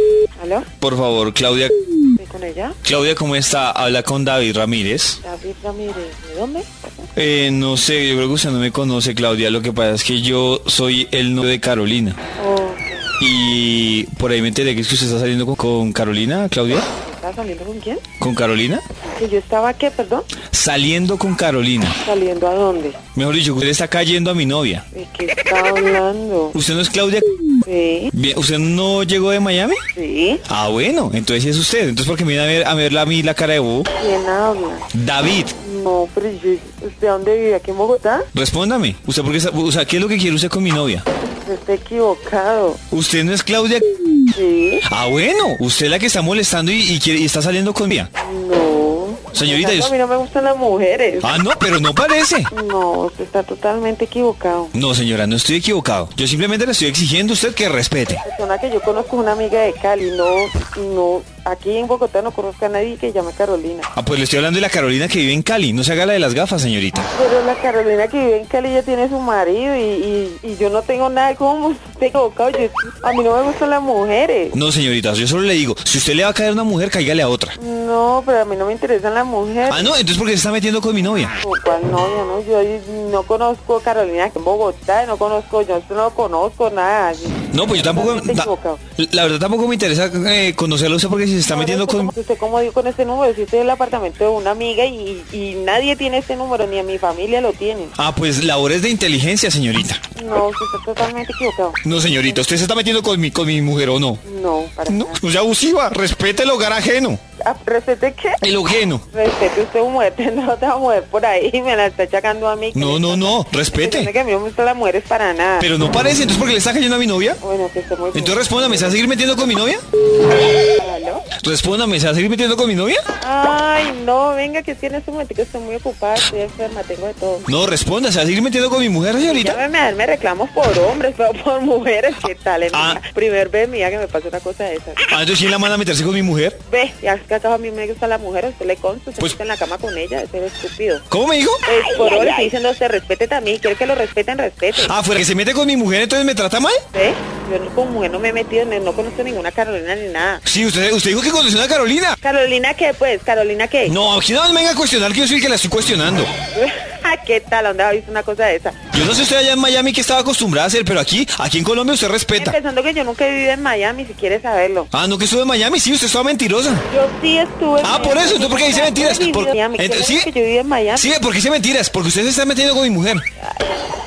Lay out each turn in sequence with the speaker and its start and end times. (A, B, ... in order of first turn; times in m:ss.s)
0:00.4-0:00.7 A
0:00.8-0:01.8 B
0:02.2-0:02.8 A
0:02.8-0:05.2 B
0:05.2-0:07.1 A
0:07.2-0:12.2 B
0:12.4-0:13.1 A
0:13.2-0:16.9 B
0:17.0-0:18.0 A
0:18.2-0:18.8 B
0:19.2-0:20.3 A
0:20.5-0:22.0 B
0:22.0-0:23.0 A
0:23.2-0:24.8 B
0:24.9-0:26.6 A
0:26.5-0:27.3 B
0:27.6-0:28.1 A
0:28.1-0:29.8 B
0:29.9-0:30.4 A
0:30.5-0:33.9 B
0:34.0-0:34.9 A
0:34.9-0:35.6 B
0:35.6-0:38.3 A
0:38.3-0:41.0 B
0:41.2-0:42.8 A
0:42.9-0:43.9 B
0:44.3-0:44.8 A
0:44.9-0:48.1 B
0:48.2-0:51.4 A
0:49.3-0:49.9 B
0:51.2-0:52.5 B
0:52.5-0:54.8 A
0:54.7-0:58.2 B
0:58.2-1:03.9 A
1:04.0-1:07.1 B
1:07.1-1:14.6 A
1:14.5-1:17.6 B
1:17.6-1:19.9 A
1:19.7-1:21.3 B
1:21.4-1:28.8 A
1:27.5-1:32.1 B
1:31.4-1:38.0 A
1:38.0-1:40.0 B
1:40.2-1:42.4 A
1:41.8-1:44.2 B
1:44.2-1:45.2 A
1:44.9-1:47.2 B
1:47.4-1:48.4 A
1:48.4-1:49.0 B
1:49.1-1:55.7 A
1:52.8-1:54.1 B
1:55.6-1:57.4 B
1:57.4-1:59.0 A
1:58.1-1:59.8 B
2:00.8-2:01.3 A
2:01.4-2:03.0 B
2:03.2-2:07.5 A
2:07.5-2:09.6 B
2:09.2-2:15.1 A
2:12.7-2:13.0 B
2:15.1-2:16.6 B
2:16.7-2:21.0 A
2:21.1-2:21.6 B
2:21.6-2:25.0 A
2:24.7-2:26.8 B
2:26.9-2:30.4 A
2:30.4-2:32.2 B
2:32.2-2:34.0 A
2:33.9-2:36.3 B
2:36.5-2:38.8 A
2:38.9-2:42.6 B
2:42.4-2:44.9 A
2:44.9-2:46.9 B
2:46.9-2:51.1 A
2:47.8-2:50.3 B
2:51.0-2:53.2 B
2:53.4-2:53.8 A